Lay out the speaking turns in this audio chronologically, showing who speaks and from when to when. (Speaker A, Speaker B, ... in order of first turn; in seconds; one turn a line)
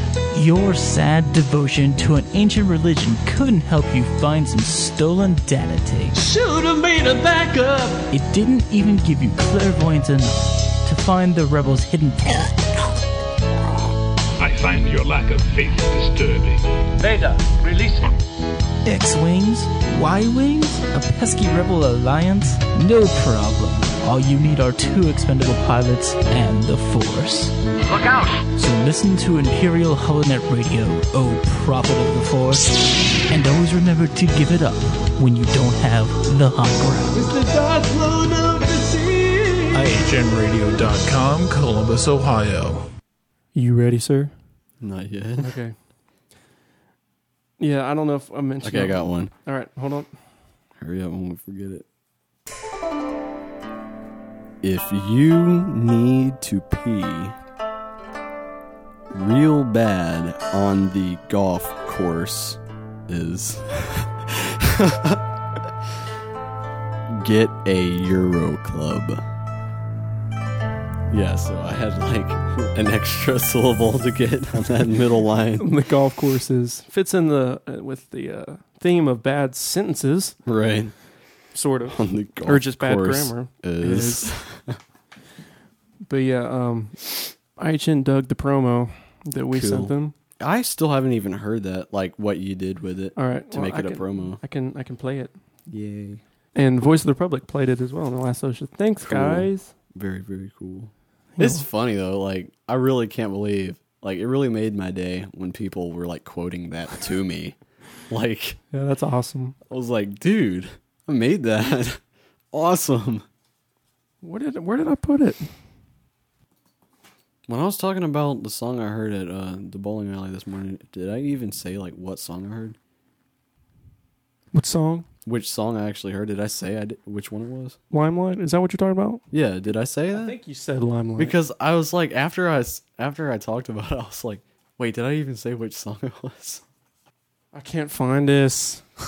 Speaker A: 0.3-6.2
Speaker B: 6.1-8.0
Speaker A: 8.1-12.5
Speaker C: 14.4-16.7
Speaker A: 18.8-27.6
Speaker A: 28.6-37.1
Speaker B: 37.1-39.8
Speaker A: 39.7-40.0
Speaker D: 40.0-42.9
Speaker E: 43.5-44.3
Speaker F: 44.8-45.5
Speaker E: 45.4-45.7
Speaker E: 47.6-50.1
Speaker F: 48.6-49.3
Speaker F: 50.8-51.8
Speaker F: 54.6-57.4
Speaker F: 59.1-65.2
Speaker F: 67.1-69.2
Speaker F: 71.1-75.7
Speaker E: 75.6-80.4
Speaker F: 80.5-80.9
Speaker E: 81.5-84.3
Speaker F: 81.9-84.8
Speaker E: 86.0-90.1
Speaker F: 89.5-94.4
Speaker E: 93.2-95.3
Speaker F: 95.7-96.2
Speaker E: 96.5-99.7
Speaker F: 99.0-107.5
Speaker E: 101.3-101.6
Speaker F: 108.1-108.6
Speaker E: 108.7-109.5
Speaker F: 109.7-112.0
Speaker F: 112.5-113.2
Speaker E: 114.2-115.5
Speaker F: 117.5-122.8
Speaker E: 124.5-125.0
Speaker F: 125.2-127.8
Speaker E: 127.9-129.2
Speaker F: 129.3-130.4
Speaker E: 130.1-131.3
Speaker F: 131.2-136.6
Speaker E: 137.5-138.9